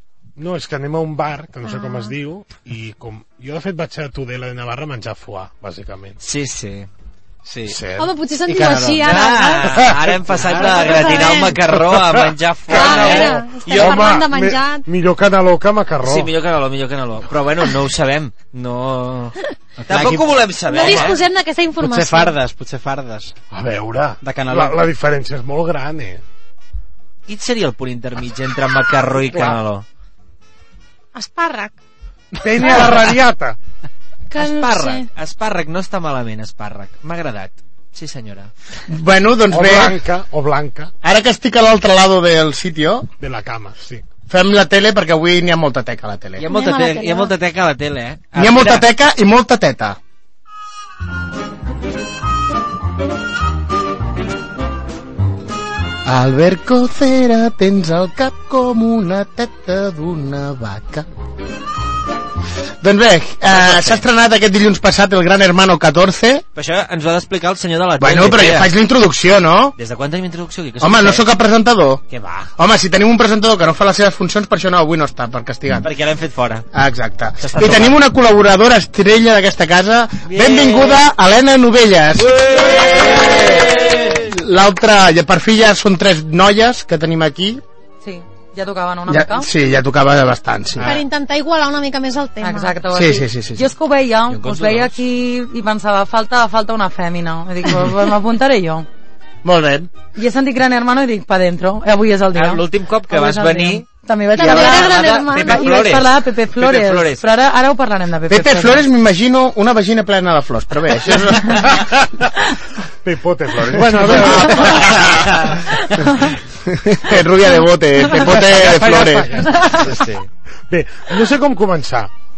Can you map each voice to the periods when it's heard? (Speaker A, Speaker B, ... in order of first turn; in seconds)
Speaker A: 0.4-6.2, 7.7-8.1, 9.8-10.2, 11.7-16.3, 23.5-26.2, 32.4-33.6, 39.5-40.9, 43.2-44.0, 113.0-115.3, 118.2-120.0, 120.7-122.1
Speaker B: 1.6-2.2, 8.0-9.8, 10.6-11.6, 12.7-14.9, 20.7-22.4, 31.1-31.8, 34.3-35.1, 46.5-47.3, 90.8-92.8, 104.3-105.9
Speaker C: 6.2-6.9, 9.0-14.1, 16.0-19.4, 19.9-21.2, 27.3-29.9, 34.4-38.5, 46.4-48.9, 63.5-64.0, 66.5-68.7, 69.8-71.3, 72.1-72.5, 75.8-76.7, 77.4-78.0, 80.2-81.0, 82.2-84.1, 94.3-95.0, 102.3-107.2
Speaker D: 7.5-7.8, 8.4-9.1, 10.3-11.4, 19.8-21.1, 21.8-23.4, 24.2-24.8
Speaker E: 38.9-40.0, 41.0-43.1, 44.3-46.5, 48.4-50.0, 56.0-61.0, 62.8-66.5, 68.0-69.8, 70.8-72.0, 72.6-75.9, 76.7-87.6, 89.1-91.0, 92.9-93.7, 99.4-99.9, 108.3-111.9, 113.7-115.5, 116.7-119.5
Speaker F: 88.0-89.5, 92.4-98.9, 100.1-108.8